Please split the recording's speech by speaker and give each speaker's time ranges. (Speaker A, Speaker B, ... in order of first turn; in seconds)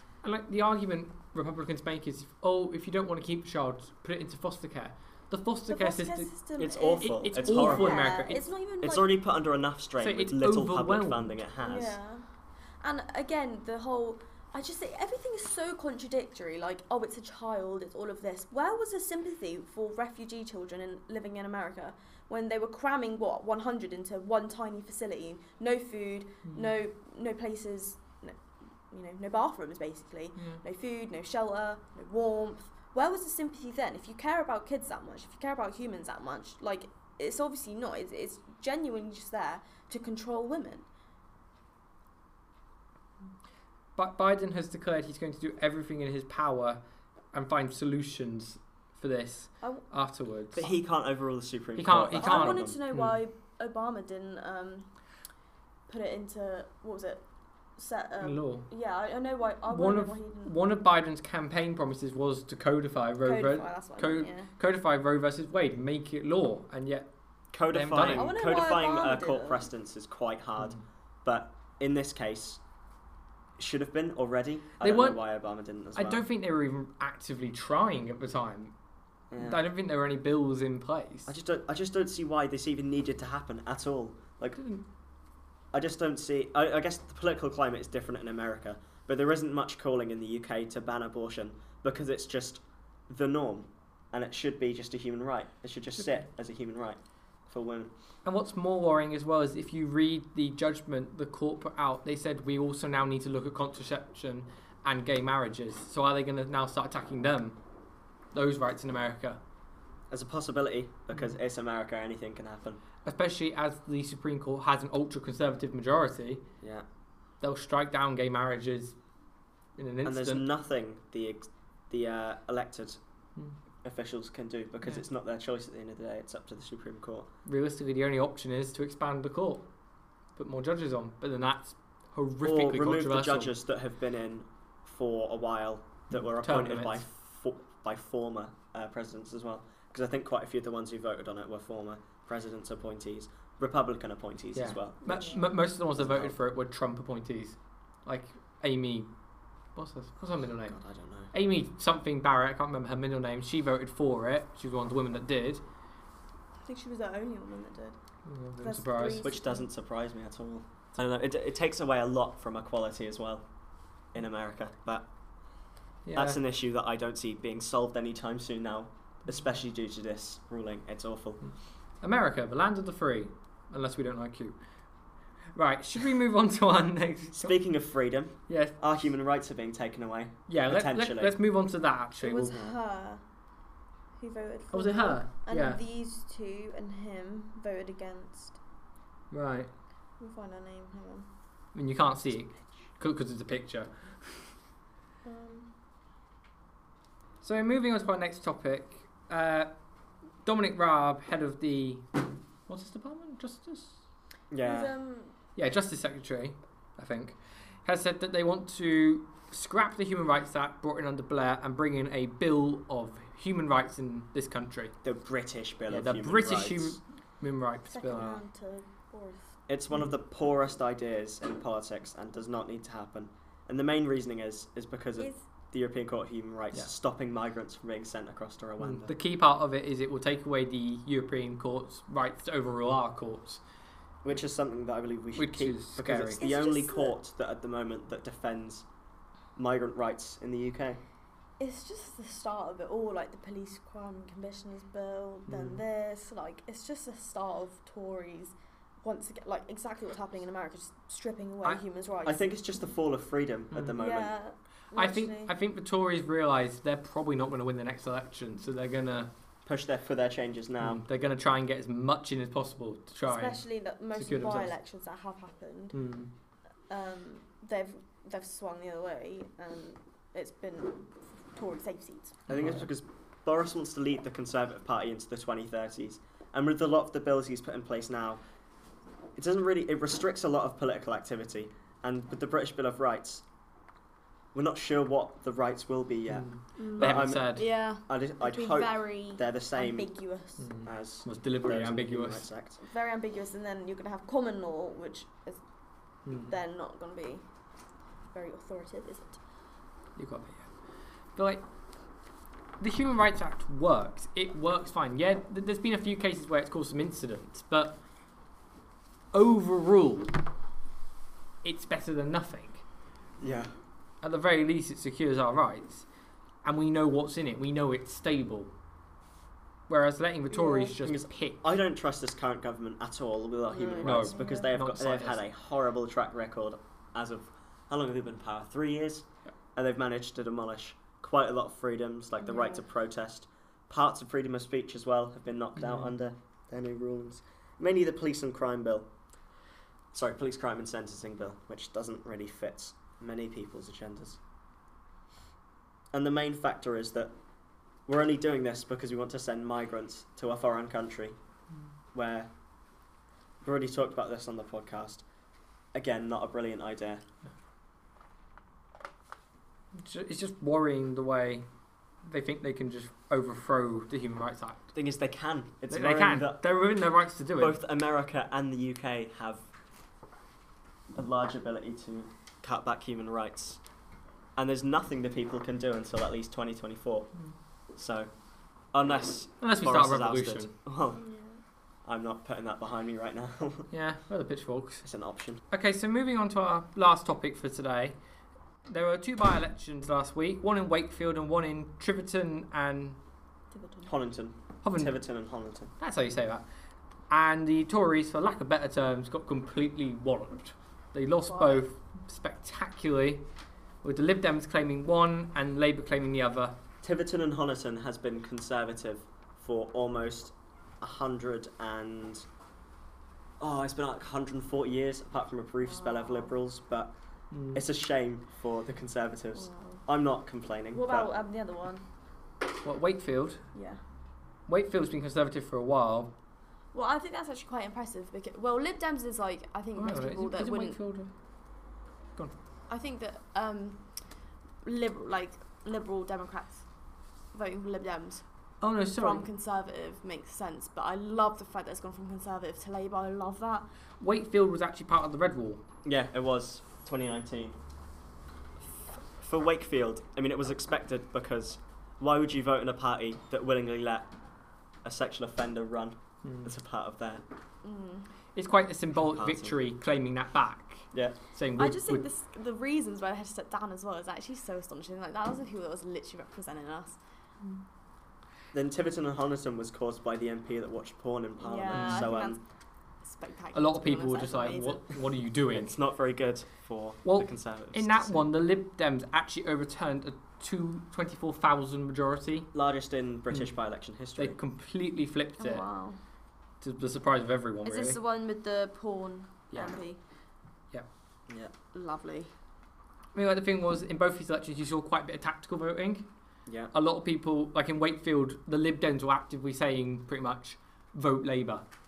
Speaker A: 0.2-6.3, 7.0-8.5, 10.0-11.3, 44.0-46.8, 47.3-50.7, 51.8-53.1, 58.2-58.7, 59.7-67.1, 67.7-68.3, 74.8-75.2, 76.0-78.7, 79.4-81.3, 98.2-107.6, 108.3-109.4, 113.0-116.4, 117.4-118.9, 119.8-120.4, 127.5-129.7, 130.3-133.5, 136.1-137.0, 144.5-149.1, 149.7-150.8, 151.3-155.6, 158.2-159.3, 166.1-166.4, 172.0-174.6, 175.5-177.5, 178.5-178.7, 180.5-182.6, 184.7-185.8, 189.3-189.7, 191.7-194.3, 197.4-199.7, 200.4-202.1, 202.7-203.9, 205.6-214.9, 215.9-218.4, 228.8-233.6, 235.3-236.4, 245.5-245.8, 254.9-259.3, 260.8-263.6, 264.1-264.7, 265.9-266.3, 272.5-272.9, 286.3-287.7, 290.6-292.5, 296.2-296.5, 300.1-300.7, 301.4-301.6, 302.8-308.0, 309.3-310.4, 311.6-312.8, 314.2-316.0, 316.6-318.7, 319.9-321.6, 324.0-325.4, 335.8-336.1, 360.0-361.6, 362.2-364.8, 365.9-367.8, 379.6-380.7, 383.9-385.0, 385.7-388.2, 388.9-393.2, 394.8-395.2, 396.0-396.6, 397.3-403.4, 404.0-406.8, 417.5-417.8, 422.8-423.6, 424.7-426.3, 429.9-431.3, 438.8-439.5, 444.2-445.8, 456.4-456.7, 458.5-462.2, 471.9-472.3, 473.7-475.9, 477.2-482.7, 484.4-485.8, 486.8-488.2, 489.7-489.9, 493.3-496.2, 496.9-501.8
Speaker B: 5.7-9.1, 11.6-40.9, 52.1-54.9, 55.9-60.6, 63.2-64.5, 68.0-69.7, 145.0-145.5, 156.6-158.0, 158.6-159.7, 182.2-183.2, 184.2-188.6, 190.2-191.3, 195.2-195.7, 204.6-205.3, 217.9-219.5, 225.2-225.4, 236.4-237.1, 241.6-252.6, 253.9-255.5, 263.2-266.0, 266.9-272.4, 286.8-290.8, 292.8-295.6, 296.4-297.4, 298.3-299.4, 320.5-320.9, 323.7-324.7, 332.4-332.8, 381.1-381.6, 393.7-394.1, 401.5-401.9, 415.8-416.5, 419.5-420.0, 420.9-422.0, 423.7-424.0, 426.9-431.0, 432.9-436.9, 437.5-438.4, 439.0-443.9, 457.8-458.3, 461.8-467.2, 471.6-472.6, 473.2-475.2, 485.6-486.2, 487.8-490.2, 491.9-492.5
Speaker C: 6.6-8.1, 8.8-11.9, 50.5-52.8, 67.5-72.6, 73.6-76.2, 79.3-79.6, 81.2-84.6, 85.7-97.9, 110.1-112.8, 120.0-123.0, 123.8-127.3, 132.4-145.0, 145.9-146.4, 150.6-151.3, 159.2-163.4, 164.1-165.1, 166.1-171.4, 177.3-181.3, 204.5-204.9, 215.0-217.0, 219.7-229.1, 234.2-238.8, 239.6-241.0, 252.2-254.3, 259.6-261.0, 272.5-278.4, 279.4-283.4, 284.5-290.1, 290.8-292.8, 313.4-313.7, 321.0-339.1, 340.1-344.4, 346.1-347.3, 348.1-351.4, 352.1-352.5, 353.6-355.2, 355.9-357.2, 364.9-366.6, 367.6-369.7, 371.1-373.8, 374.6-377.3, 377.9-378.3, 378.9-381.2, 382.0-383.9, 385.0-385.6, 394.0-395.9, 407.0-412.4, 413.6-417.1, 417.7-421.3, 446.0-447.8, 449.4-454.3, 455.0-457.4, 459.2-459.8, 468.7-472.6, 475.7-478.5, 482.7-484.6, 496.6-496.9